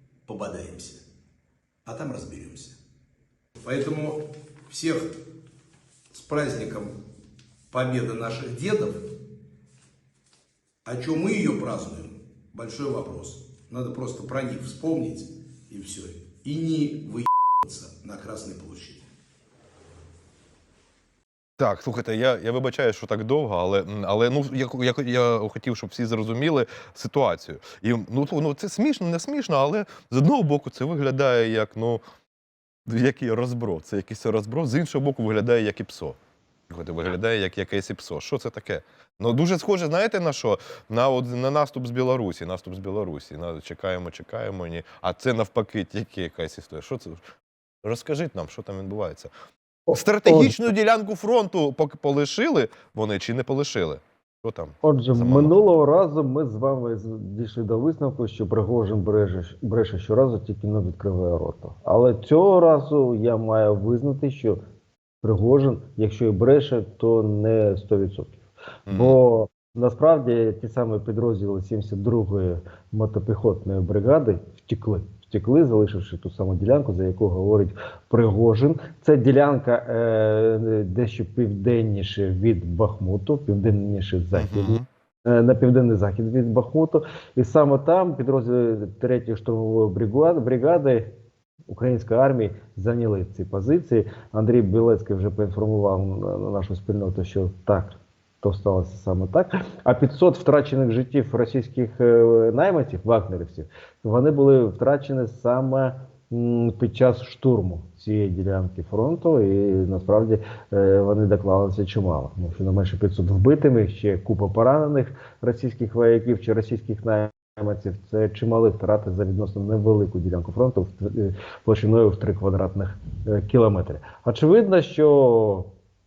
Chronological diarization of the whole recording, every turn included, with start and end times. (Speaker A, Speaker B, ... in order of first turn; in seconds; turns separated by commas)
Speaker A: 0.3-1.0, Speaker A: 1.9-2.8, Speaker A: 3.6-5.2, Speaker A: 6.1-6.9, Speaker A: 7.7-9.1, Speaker A: 10.8-19.1, Speaker B: 21.6-32.0, Speaker B: 32.9-36.2, Speaker B: 36.7-47.2, Speaker B: 47.8-49.3, Speaker C: 49.9-50.7, Speaker B: 49.9-55.6, Speaker C: 54.8-64.6, Speaker C: 65.2-91.1, Speaker B: 68.9-69.2, Speaker B: 84.3-84.8, Speaker C: 91.7-125.7